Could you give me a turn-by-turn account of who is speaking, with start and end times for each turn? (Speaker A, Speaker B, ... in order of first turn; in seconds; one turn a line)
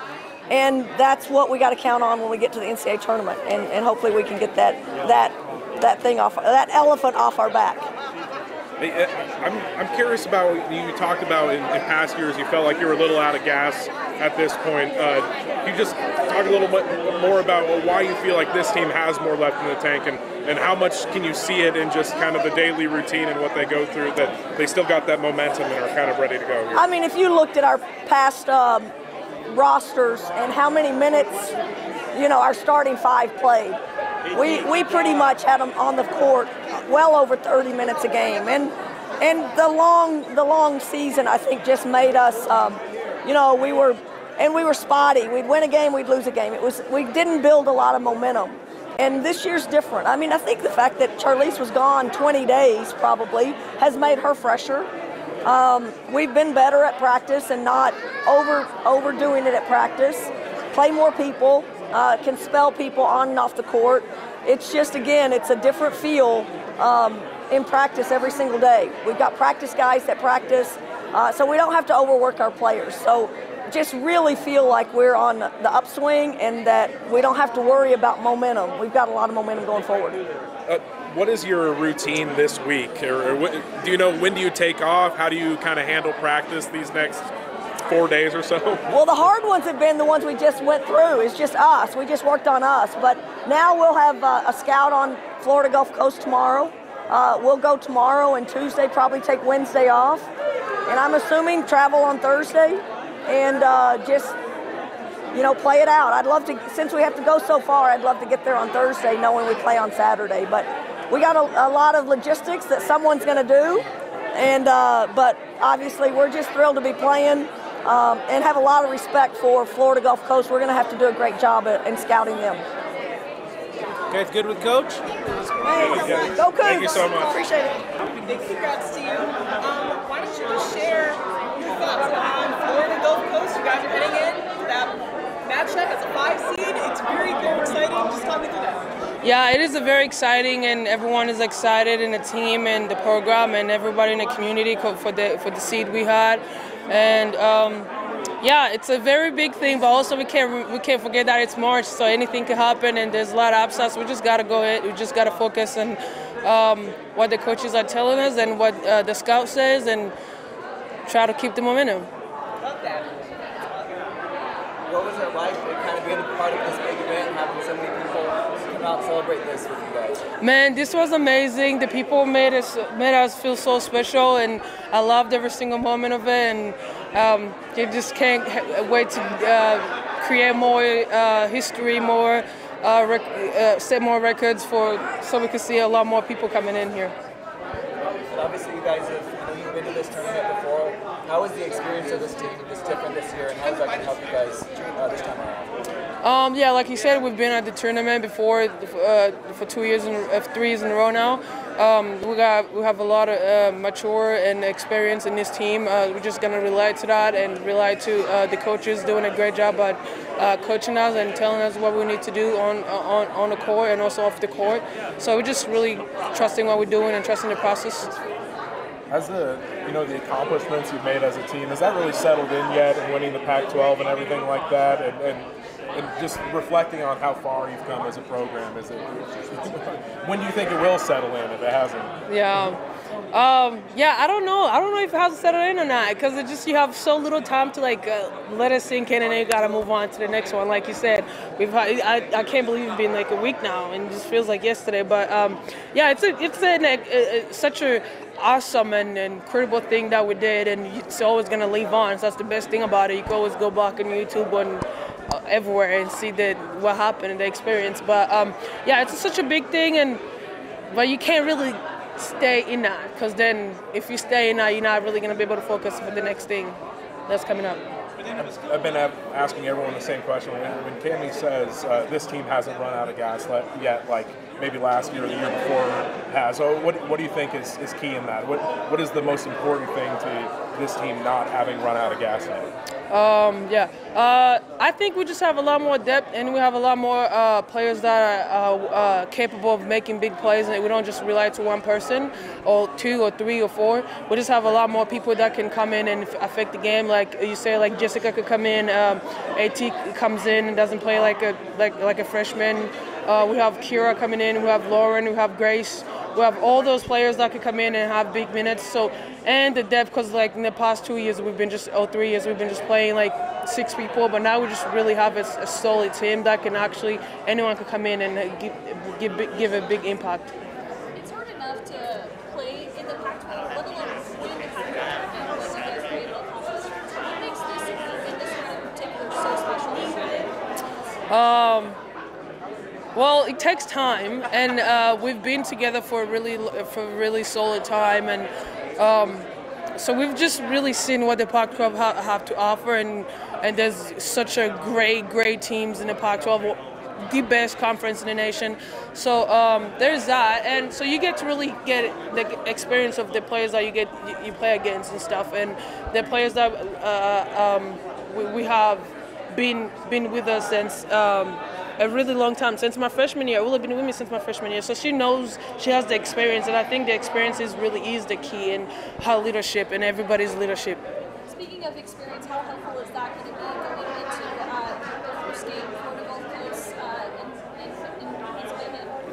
Speaker A: 0.5-7.9
Speaker B: 8.8-26.8
Speaker A: 26.7-28.9
Speaker A: 29.5-31.5
Speaker A: 32.1-33.8
Speaker A: 34.3-54.9
Speaker A: 55.4-80.2
Speaker B: 80.7-87.3
Speaker B: 87.8-88.8
Speaker A: 88.9-100.3
Speaker A: 100.9-104.4
Speaker A: 105.3-122.7
Speaker B: 124.1-127.4
Speaker A: 125.6-127.8
Speaker C: 125.8-126.2
Speaker C: 128.0-138.8
Speaker D: 139.2-147.9
Speaker D: 148.4-160.2
Speaker D: 161.1-162.1
Speaker C: 162.6-163.1
Speaker E: 164.9-170.2
Speaker D: 170.4-187.1
Speaker E: 188.3-195.7
Speaker D: 196.2-218.1
Speaker B: 219.1-232.1
Speaker D: 232.3-232.8
Speaker D: 233.3-260.2
Speaker D: 260.9-267.8
Speaker B: 268.4-282.7
Speaker D: 283.1-320.5
Speaker F: 321.1-330.5
Speaker D: 331.3-332.0
Speaker D: 333.1-371.0
Speaker F: 371.4-379.1